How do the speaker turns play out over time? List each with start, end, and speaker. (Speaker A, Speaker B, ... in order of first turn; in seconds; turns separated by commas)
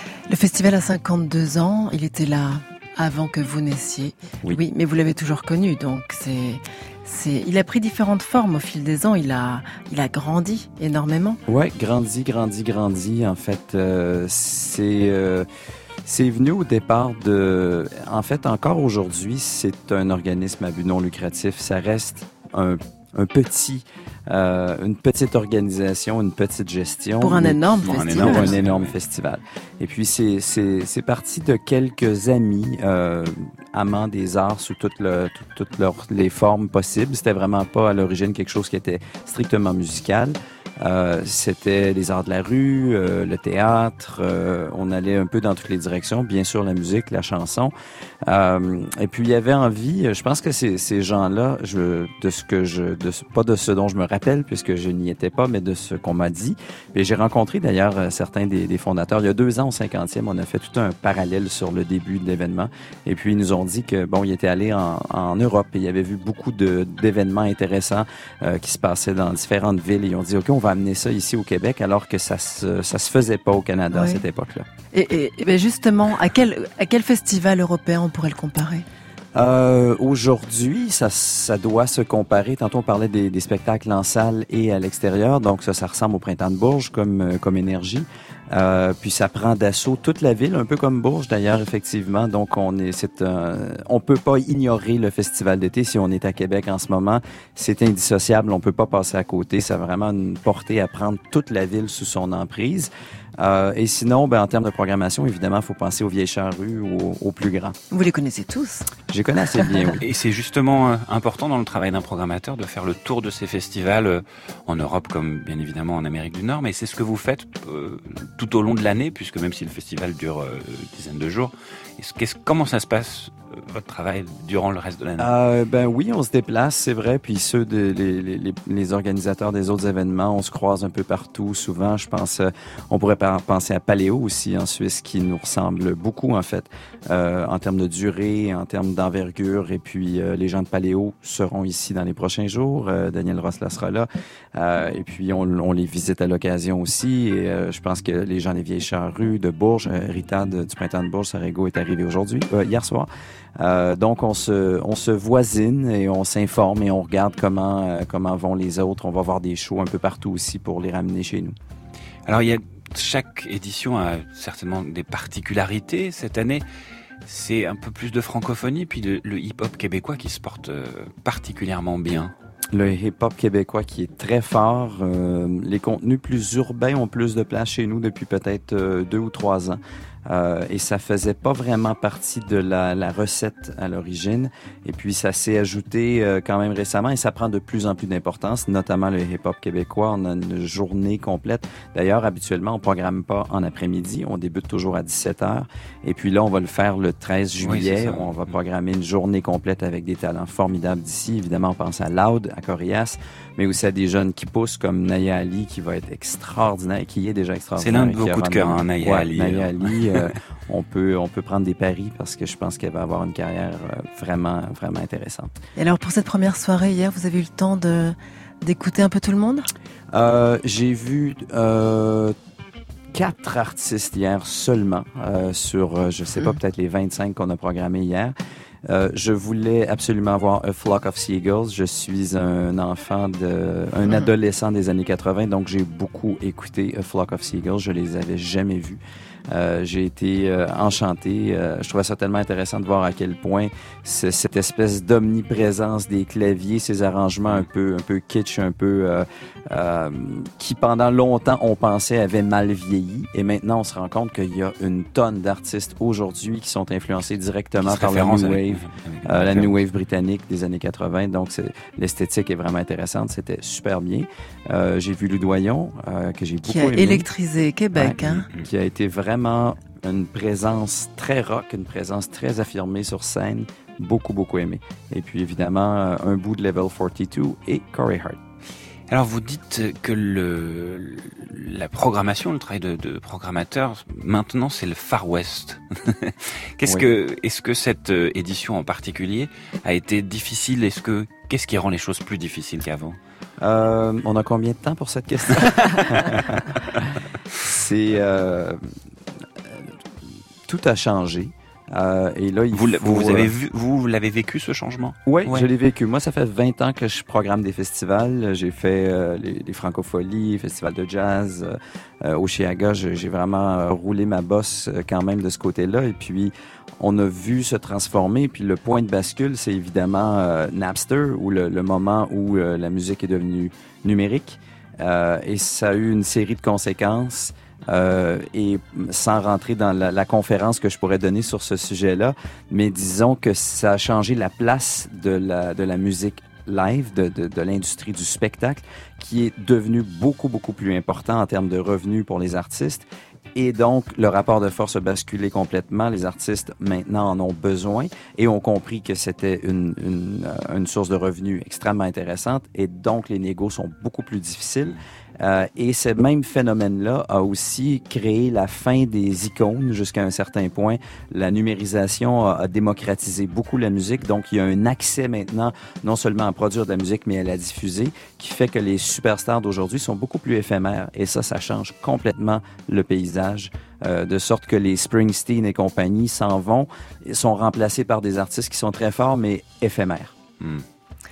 Speaker A: 0.3-11.4, Speaker B: 11.5-15.5, Speaker B: 16.0-47.7, Speaker A: 27.2-28.6, Speaker C: 27.9-28.9, Speaker B: 48.3-74.7, Speaker A: 73.9-74.2, Speaker A: 74.9-78.8, Speaker B: 79.3-107.7, Speaker A: 107.9-108.9, Speaker B: 109.1-110.0, Speaker C: 110.0-125.3, Speaker B: 125.2-161.6, Speaker C: 162.2-166.6, Speaker C: 167.2-172.3, Speaker B: 172.7-215.5, Speaker C: 197.6-198.5, Speaker C: 207.8-210.2, Speaker A: 215.8-219.7, Speaker B: 220.1-222.3, Speaker B: 223.1-228.3, Speaker B: 228.9-267.3, Speaker C: 257.8-259.7, Speaker A: 266.6-268.5, Speaker B: 267.9-278.4, Speaker C: 279.1-293.2, Speaker B: 293.6-296.5, Speaker B: 297.7-298.8, Speaker B: 300.7-303.5, Speaker C: 302.7-305.7, Speaker B: 305.2-380.3